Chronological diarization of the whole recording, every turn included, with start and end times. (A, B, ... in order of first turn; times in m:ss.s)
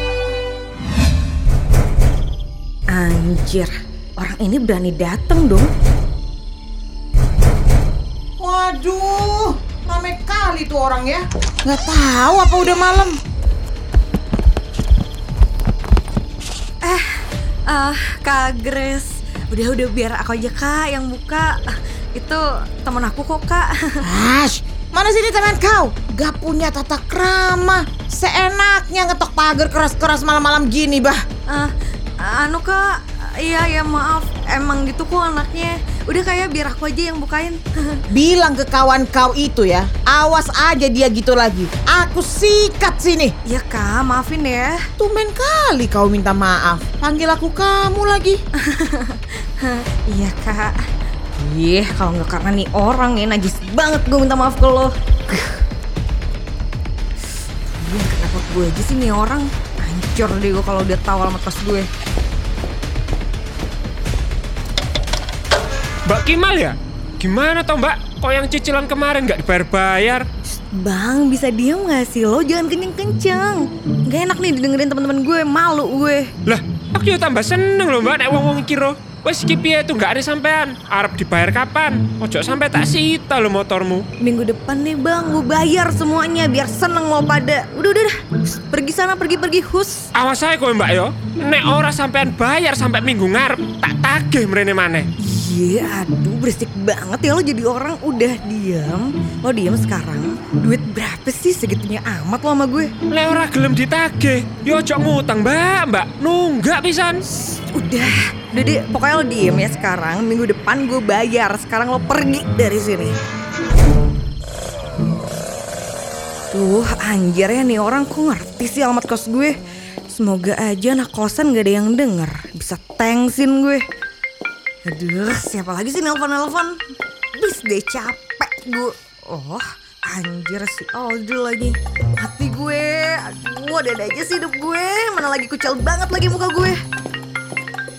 0:02.9-0:05.7 A
0:08.4-0:13.2 B
0:16.8-0:24.0 A
0:24.0-0:31.2 B
0:31.5-0:38.0 A
0:38.1-0:43.3 B
0:43.4-0:44.8 A
0:45.0-0:48.4 B
0:48.6-0:50.8 A
0:51.4-0:55.6 A
0:57.8-1:01.9 A
1:06.0-1:10.2 C
1:10.6-1:16.3 A
1:16.4-1:24.0 C
1:24.2-1:30.1 A
1:30.1-1:35.0 C
1:35.2-1:42.9 A
1:43.1-1:47.2 C
1:47.7-1:53.1 A
1:56.5-1:59.5 A
2:00.1-2:03.8 A
2:04.8-2:06.8 A
2:07.4-2:16.8 A